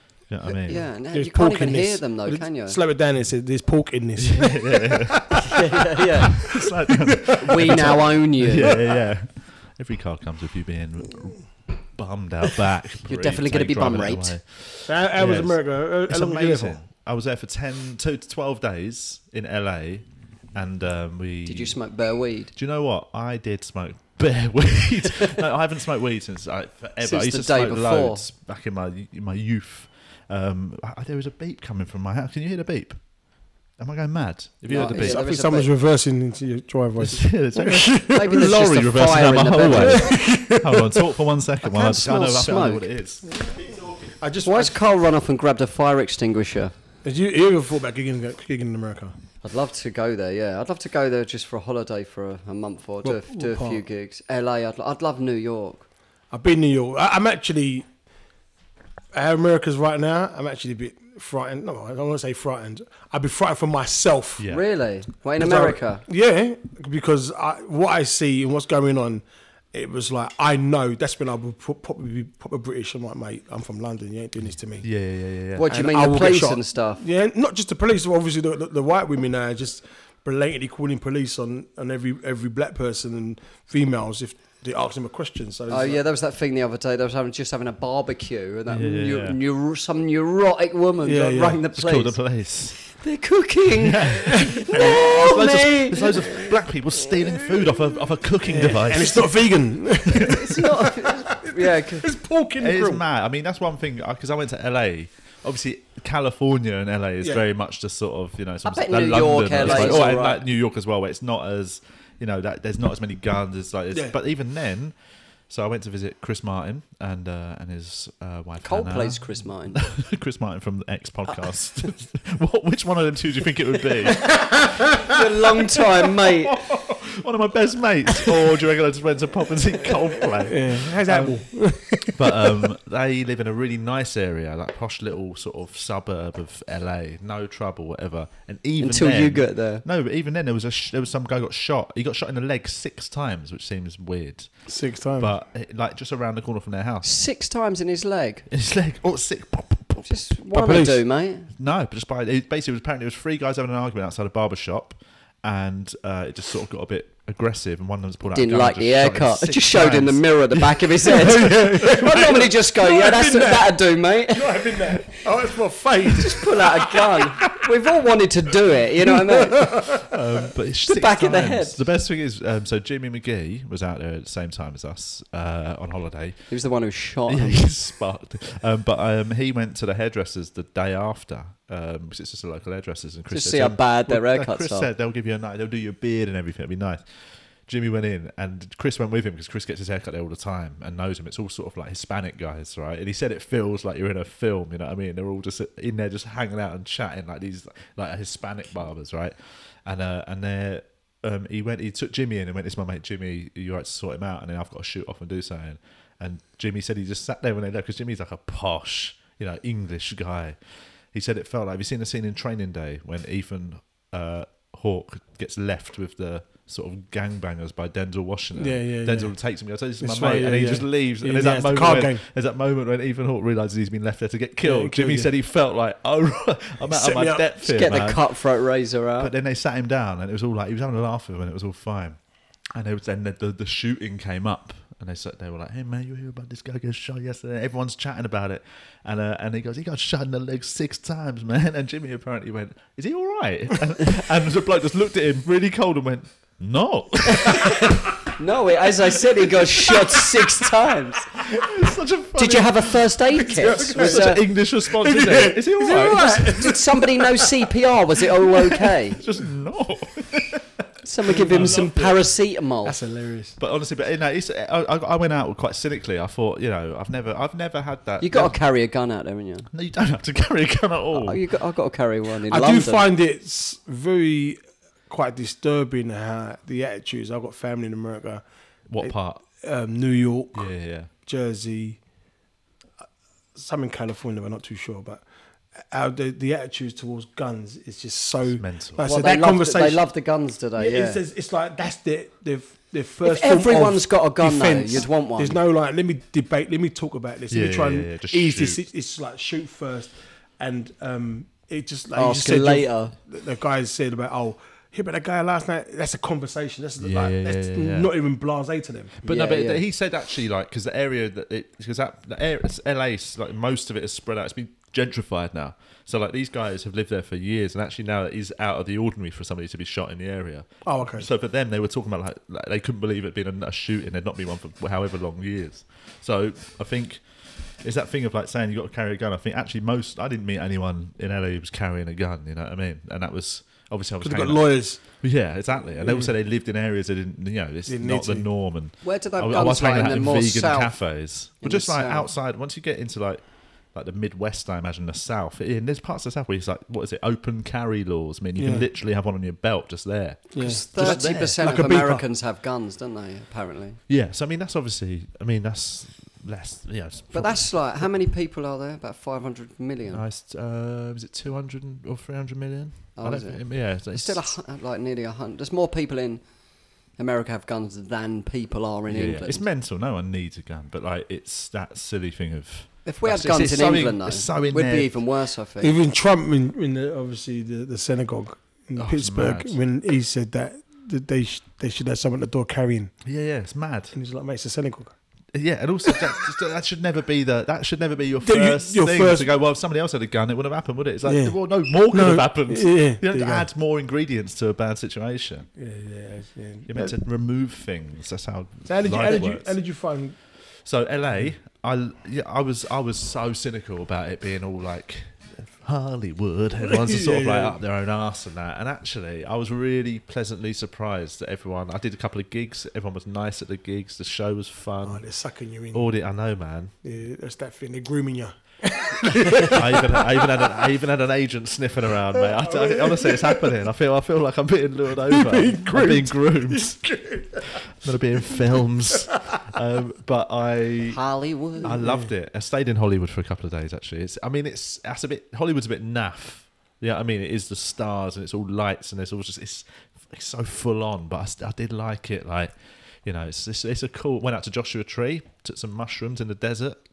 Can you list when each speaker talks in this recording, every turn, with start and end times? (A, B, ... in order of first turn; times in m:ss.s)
0:00.3-0:00.9 A
0:00.6-0:02.8 B
0:01.1-0:06.1 C
0:04.2-0:05.5 A
0:05.4-0:06.6 B
0:06.3-0:21.8 A
0:06.6-0:08.0 C
0:07.4-0:08.8 B
0:08.6-0:09.0 C
0:13.0-0:14.4 B
0:14.8-0:16.8 C
0:21.4-0:22.5 B
0:22.5-0:33.0 A
0:27.0-0:28.2 B
0:33.8-0:35.2 A
0:34.7-0:35.7 B
0:34.8-0:38.4 C
0:37.0-0:43.9 A
0:38.1-0:40.2 B
0:39.8-0:41.0 C
0:41.6-0:42.9 B
0:43.3-0:44.8 C
0:44.4-0:46.7 B
0:47.0-0:49.2 C
0:49.4-0:55.8 B
0:53.0-0:53.8 C
0:56.3-0:57.9 C
0:59.1-1:04.5 C
1:04.4-1:04.6 A
1:04.5-1:06.0 B
1:05.4-1:14.9 C
1:14.8-1:15.7 A
1:15.6-1:17.0 B
1:15.7-1:26.0 C
1:25.7-1:32.2 B
1:28.7-1:29.4 A
1:31.0-1:31.6 C
1:31.7-1:32.8 A
1:32.8-1:36.3 B
1:33.8-1:39.4 A
1:34.6-1:35.2 C
1:38.4-1:43.0 C
1:40.1-1:40.4 A
1:40.2-1:42.1 B
1:42.6-1:54.9 A
1:48.6-1:50.4 B
1:49.6-1:49.9 C
1:55.5-2:04.5 A
1:58.6-1:59.8 B
2:04.3-2:06.6 B
2:04.4-2:05.0 C
2:06.3-2:11.4 A
2:10.5-2:12.6 C
2:12.0-2:24.5 A
2:18.8-2:19.8 B
2:24.7-2:25.3 C
2:25.2-2:27.1 A
2:27.0-2:28.5 B
2:28.5-2:30.1 A
2:30.0-2:31.5 B
2:30.5-2:31.0 C
2:31.5-2:41.2 A
2:38.3-2:45.0 B
2:41.1-2:47.4 C
2:46.2-2:49.9 B
2:49.0-2:50.1 C
2:50.1-2:56.5 A
2:50.9-2:51.8 B
2:56.5-2:57.7 B
2:57.3-3:07.0 A
3:03.3-3:04.9 B
3:07.7-3:30.6 A
3:31.1-3:48.3 A
3:38.6-3:39.3 C
3:40.0-3:42.2 C
3:44.6-3:45.3 C
3:46.9-3:47.5 C
3:47.6-3:49.3 B
3:49.2-3:52.2 A
3:52.7-4:07.8 A
4:07.3-4:11.3 B
4:09.8-4:10.2 C
4:11.4-4:12.8 A
4:12.4-4:14.4 B
4:13.3-4:17.7 C
4:13.9-4:16.5 A
4:16.1-4:19.2 B
4:18.4-4:18.9 C
4:19.1-4:20.8 A
4:21.0-4:23.0 B
4:21.2-4:22.2 C
4:22.8-4:23.6 C
4:23.6-4:28.6 A
4:28.2-4:29.7 B
4:29.7-4:31.4 A
4:31.1-4:33.0 B
4:32.5-4:38.4 C
4:38.9-4:39.4 A
4:39.0-4:40.7 C
4:40.5-4:41.1 A
4:41.2-4:42.0 C
4:43.5-4:45.2 C
4:45.8-4:50.0 C
4:48.6-4:49.1 A
4:49.0-4:51.2 B
4:50.8-5:09.3 C
4:53.2-4:55.6 B
4:57.5-4:58.8 A
5:02.1-5:03.1 B
5:07.0-5:08.1 A
5:09.2-5:27.2 A
5:09.3-5:09.8 B
5:20.8-5:21.3 C
5:27.8-5:51.6 A
5:34.2-5:35.0 C
5:36.0-5:36.3 C
5:37.9-5:38.5 C
5:39.0-5:41.0 B
5:41.6-5:42.3 B
5:48.6-5:48.8 C
5:50.5-5:52.2 C
5:50.6-5:54.0 B
5:54.1-5:57.6 A
5:57.3-6:00.2 B
6:00.1-6:04.4 A
6:03.2-6:06.4 B
6:07.2-6:09.6 B
6:09.1-6:15.2 A
6:13.0-6:16.0 B
6:15.8-6:23.1 C
6:19.0-6:19.8 A
6:23.2-6:24.2 A
6:24.1-6:25.1 C
6:25.5-6:35.7 A
6:28.4-6:29.5 C
6:31.2-6:31.6 C
6:32.1-6:33.7 C
6:35.8-6:37.1 C
6:36.9-6:39.8 A
6:38.8-6:40.4 C
6:40.8-6:55.2 A
6:46.8-6:47.8 C
6:55.0-6:56.1 C
6:55.9-6:56.9 A
6:57.0-7:00.9 C
6:59.6-7:07.0 A
7:02.3-7:03.8 C
7:05.2-7:07.8 C
7:07.6-7:11.2 A
7:11.1-7:12.0 B
7:11.8-7:22.7 A
7:11.8-7:12.3 C
7:23.2-7:27.0 A